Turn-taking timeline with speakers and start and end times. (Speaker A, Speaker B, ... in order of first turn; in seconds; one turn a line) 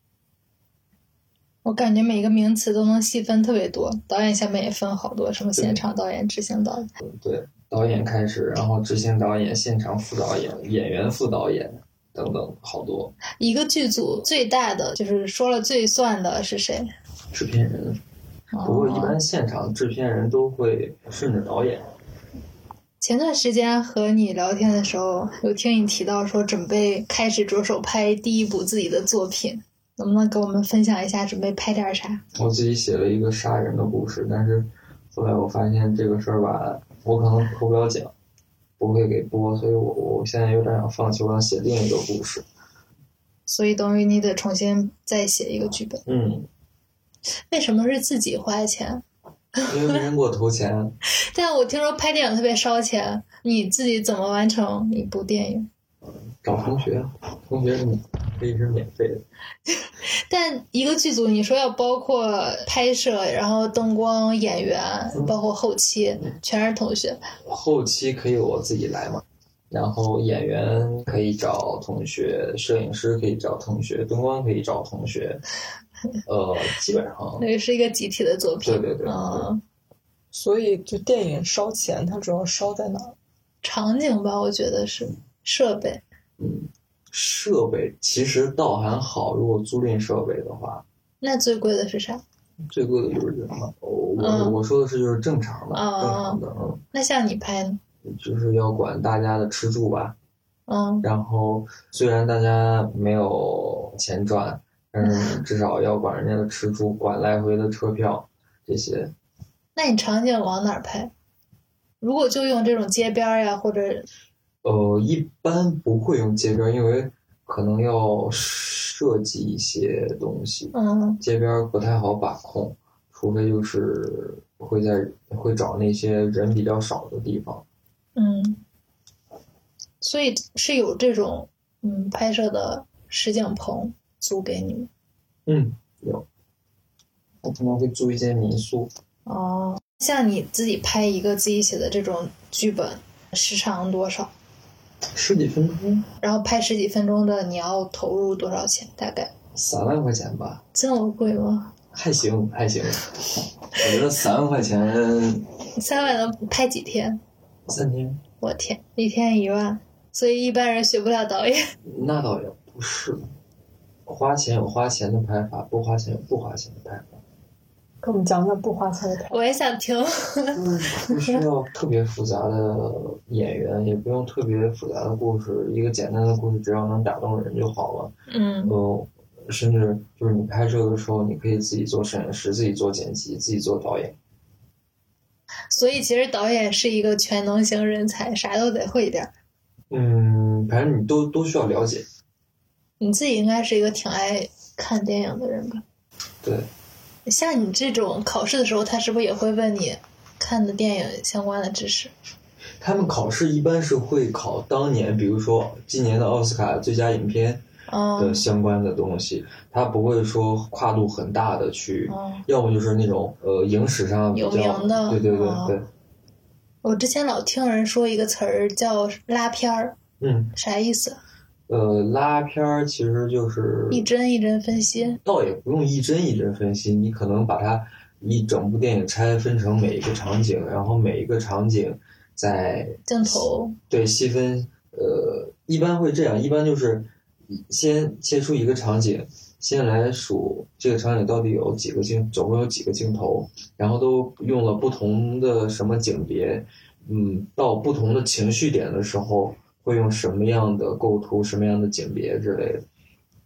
Speaker A: 1.6-6.9
Speaker B: 5.5-5.8
Speaker B: 7.0-13.1
Speaker A: 13.4-16.9
Speaker B: 17.3-18.0
Speaker A: 18.5-19.2
Speaker B: 18.6-21.9
Speaker A: 23.0-32.2
Speaker B: 32.3-38.1
Speaker B: 38.8-42.4
Speaker A: 43.5-46.0
Speaker B: 46.0-46.5
Speaker A: 47.5-49.0
Speaker A: 49.6-50.0
Speaker B: 49.6-50.9
Speaker A: 51.2-55.7
Speaker B: 56.3-59.2
Speaker A: 59.7-67.2
Speaker B: 67.4-75.4
Speaker B: 76.2-77.5
Speaker A: 77.4-79.6
Speaker B: 78.6-79.5
Speaker C: 80.3-83.2
Speaker A: 83.6-86.0
Speaker B: 86.4-90.8
Speaker A: 91.2-92.2
Speaker B: 92.7-96.8
Speaker A: 94.2-94.6
Speaker A: 95.7-96.4
Speaker A: 96.9-97.8
Speaker B: 98.0-100.1
Speaker A: 100.7-101.0
Speaker B: 101.0-109.1
Speaker A: 105.0-105.3
Speaker A: 109.8-111.1
Speaker A: 112.0-114.0
Speaker B: 114.6-127.6
Speaker A: 120.7-121.2
Speaker A: 128.2-128.6
Speaker A: 130.0-134.9
Speaker B: 135.4-136.2
Speaker B: 137.4-138.9
Speaker A: 139.2-144.3
Speaker B: 145.1-146.0
Speaker A: 146.2-149.3
Speaker B: 149.5-150.6
Speaker A: 150.7-151.7
Speaker B: 151.9-153.2
Speaker B: 153.7-155.5
Speaker A: 155.8-157.2
Speaker B: 157.7-158.2
Speaker A: 158.4-161.7
Speaker B: 161.8-163.2
Speaker B: 164.1-167.2
Speaker C: 168.0-169.4
Speaker A: 169.3-170.6
Speaker B: 170.5-178.1
Speaker A: 178.3-178.7
Speaker B: 178.6-184.2
Speaker A: 185.7-189.3
Speaker B: 189.9-192.1
Speaker A: 193.0-195.8
Speaker B: 196.4-196.7
Speaker A: 197.3-202.1
Speaker B: 202.8-207.6
Speaker A: 207.9-208.4
Speaker B: 208.2-215.9
Speaker A: 212.1-212.4
Speaker A: 214.3-215.8
Speaker A: 216.8-220.0
Speaker B: 220.2-220.5
Speaker A: 220.6-221.2
Speaker B: 221.7-224.1
Speaker A: 223.9-225.2
Speaker B: 225.2-252.8
Speaker A: 233.1-233.8